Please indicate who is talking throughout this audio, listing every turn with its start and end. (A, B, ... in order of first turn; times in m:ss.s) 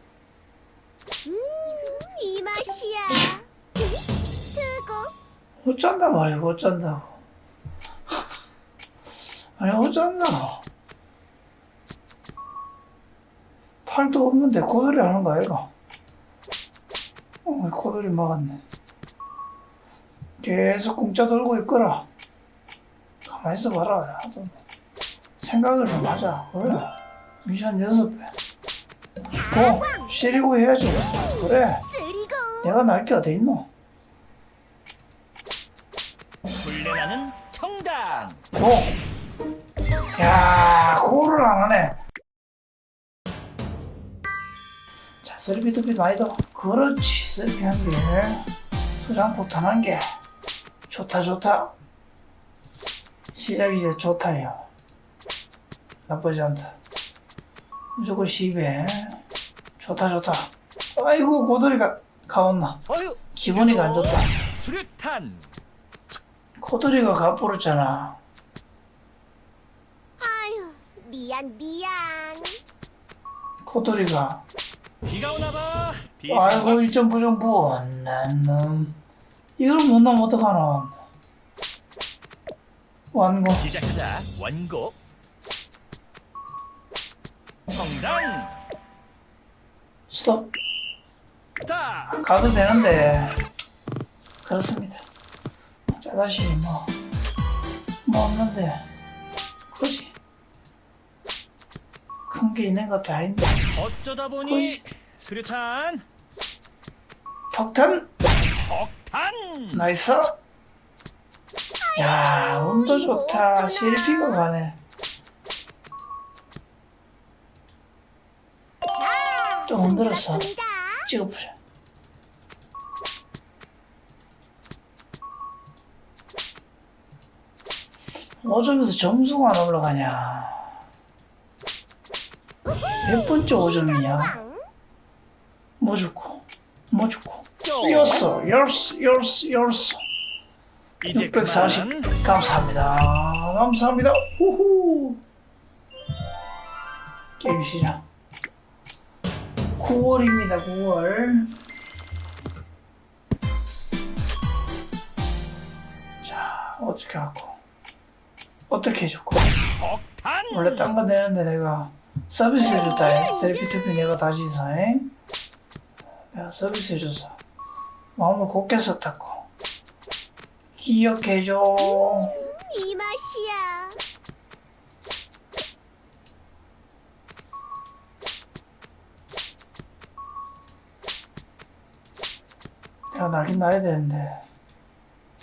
0:01.2-0:05.1 A
0:05.6-0:07.2 B
0:09.6-0:10.7 B
0:13.8-0:15.7 B
0:17.4-0:18.6 B
0:20.4-0:22.1 B
0:23.2-0:24.6 B
0:25.4-0:28.3 B
0:29.3-0:30.1 A
0:29.5-0:31.9 B
0:31.9-0:32.7 A
0:32.6-0:33.7 B
0:36.6-0:38.4 C
0:38.5-0:39.0 B
0:40.2-0:42.0 B
0:45.2-0:48.5 B
0:49.0-0:50.1 B
0:50.9-0:51.8 B
0:53.3-0:54.7 B
0:56.1-0:56.8 B
0:58.0-0:59.2 B
0:59.8-1:04.4 B
1:02.9-1:05.5 C
1:06.6-1:08.2 B
1:10.2-1:12.6 A
1:13.6-1:14.4 B
1:15.0-1:16.8 C
1:16.3-1:19.0 B
1:19.6-1:21.0 B
1:23.1-1:23.7 B
1:23.6-1:25.0 C
1:27.7-1:28.6 C
1:30.1-1:30.5 B
1:31.6-1:32.2 C
1:32.1-1:33.4 B
1:34.4-1:35.1 B
1:35.9-1:36.9 B
1:38.0-1:38.8 B
1:39.7-1:40.2 B
1:42.3-1:43.6 B
1:43.8-1:46.0 C
1:44.4-1:44.8 B
1:47.5-1:48.1 B
1:48.6-1:49.9 C
1:49.7-1:50.4 B
1:51.9-1:54.4 A
1:52.0-1:54.8 B
1:58.8-2:01.1 A
1:59.7-2:00.5 B
2:01.0-2:01.6 B
2:08.4-2:10.8 B
2:13.0-2:14.4 B
2:13.5-2:14.6 A
2:15.8-2:20.0 B
2:17.6-2:18.3 C
2:21.0-2:22.1 C
2:21.1-2:25.2 B
2:27.4-2:28.1 B
2:29.8-2:31.6 B
2:36.2-2:37.6 B
2:38.7-2:39.5 B
2:39.8-2:40.9 C
2:40.5-2:45.1 B
2:42.8-2:43.7 A
2:46.3-2:47.4 B
2:48.2-2:49.5 B
2:50.8-2:52.4 B
2:51.9-2:54.0 A
3:03.1-3:04.5 B